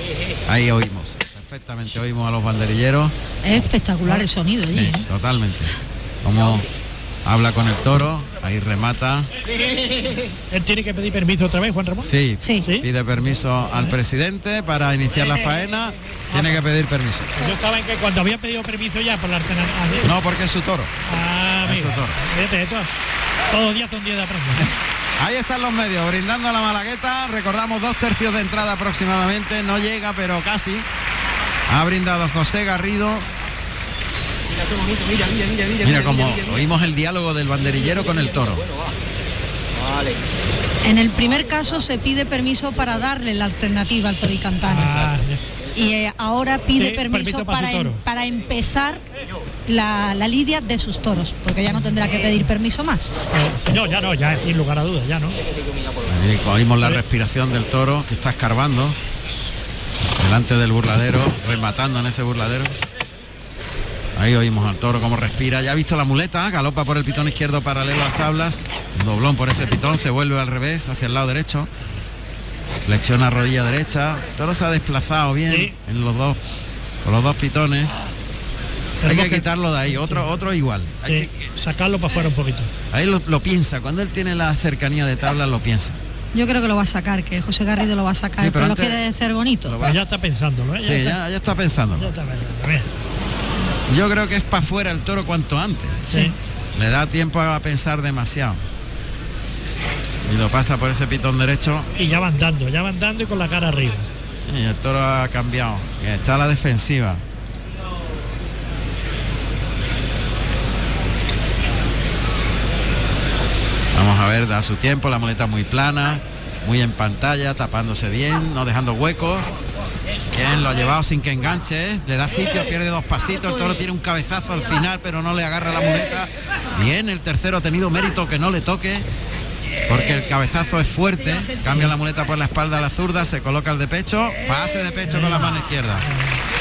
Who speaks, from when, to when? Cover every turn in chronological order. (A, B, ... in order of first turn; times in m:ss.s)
0:00.4-0:03.1 A
0:03.4-0:05.0 B
0:04.7-0:05.7 A
0:06.2-0:06.7 A
0:07.2-0:09.3 A
0:10.5-0:12.1 C
0:12.0-0:17.4 A
0:12.4-0:12.7 B
0:12.6-0:12.9 C
0:16.3-0:16.6 C
0:17.4-0:20.1 C
0:20.0-0:21.0 A
0:21.1-0:22.9 C
0:21.6-0:22.2 A
0:23.5-0:24.7 C
0:24.6-0:30.9 A
0:31.7-0:33.3 A
0:35.7-0:38.6 A
0:40.8-0:44.9 B
0:44.7-0:45.4 C
0:44.7-0:45.2 A
0:45.8-0:49.0 B
0:46.7-0:48.0 C
0:49.7-0:53.1 B
0:53.3-0:55.4 C
0:56.1-0:59.0 A
1:00.2-1:02.8 A
1:04.2-1:11.7 A
1:12.8-1:16.4 A
1:15.5-1:15.7 C
1:17.0-1:18.0 A
1:19.0-1:20.2 C
1:19.0-1:21.5 A
1:21.0-1:22.7 C
1:22.9-1:26.0 A
1:26.3-1:29.8 B
1:28.4-1:29.0 A
1:29.6-1:30.0 A
1:29.8-1:31.2 C
1:30.8-1:32.1 A
1:32.0-1:32.9 C
1:33.9-1:36.1 A
1:36.1-1:36.4 C
1:36.8-1:38.6 A
1:40.2-1:41.9 A
1:42.0-1:44.1 C
1:44.5-1:47.2 A
1:53.9-1:59.5 A
2:00.3-2:09.1 A
2:09.9-2:16.1 A
2:11.7-2:11.9 C
2:15.0-2:16.4 C